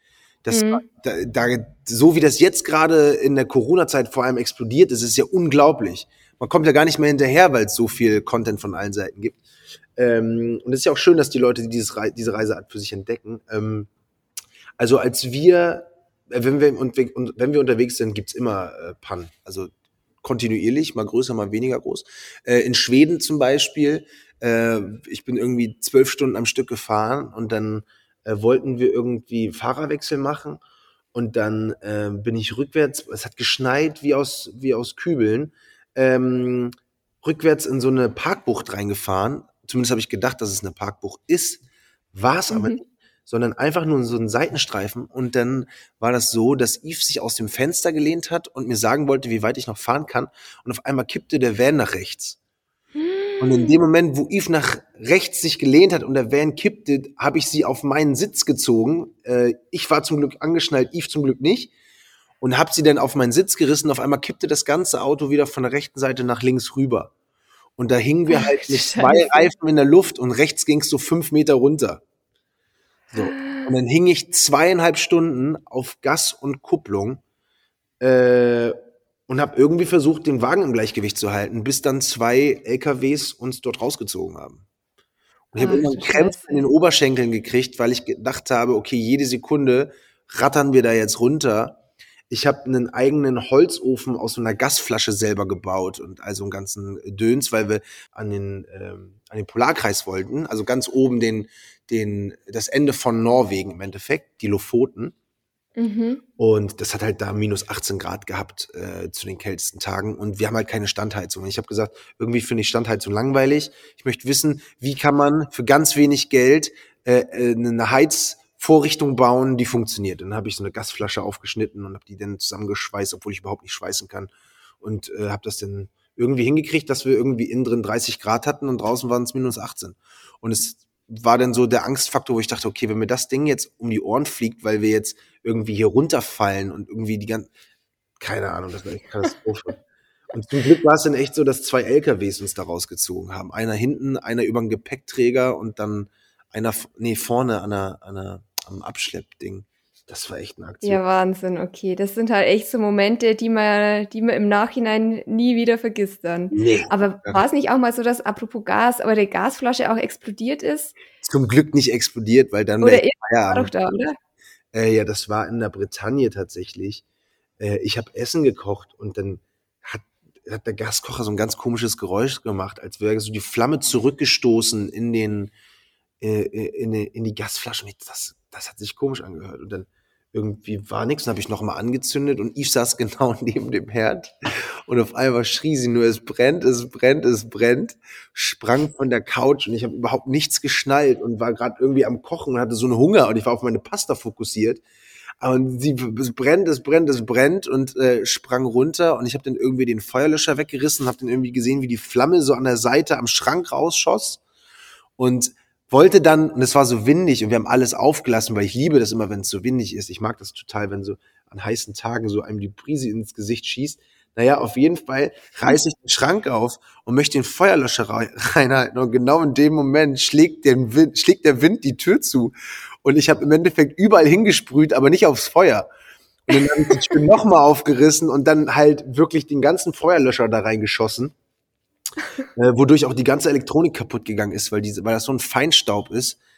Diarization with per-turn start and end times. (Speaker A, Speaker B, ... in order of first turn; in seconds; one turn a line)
Speaker A: 0.5-9.4
Speaker B: 0.5-0.8
Speaker A: 10.0-13.9
Speaker A: 14.8-19.7
Speaker A: 20.2-30.6
Speaker A: 31.1-52.4
Speaker B: 42.5-42.8
Speaker B: 53.0-53.8
Speaker A: 53.4-61.7
Speaker A: 62.4-67.1
Speaker A: 67.8-72.0
Speaker B: 68.3-69.5
Speaker A: 73.1-77.2
Speaker B: 73.2-73.7
Speaker A: 78.0-78.8
Speaker A: 79.3-84.6
Speaker A: 85.5-91.8
Speaker B: 85.6-86.7
Speaker A: 92.3-105.2
Speaker B: 105.8-106.2
Speaker A: 106.4-137.5
Speaker A: 138.2-139.8
Speaker A: 140.3-151.0
Speaker B: 150.8-160.9
Speaker A: 156.5-157.4
Speaker A: 161.2-163.9
Speaker B: 162.8-164.2
Speaker A: 164.7-167.0
Speaker A: 167.6-175.5
Speaker A: 176.2-194.8
Speaker A: 195.4-204.4
Speaker A: 205.2-225.9
Speaker A: 226.5-231.3
Speaker B: 226.6-227.1
Speaker A: 232.6-236.4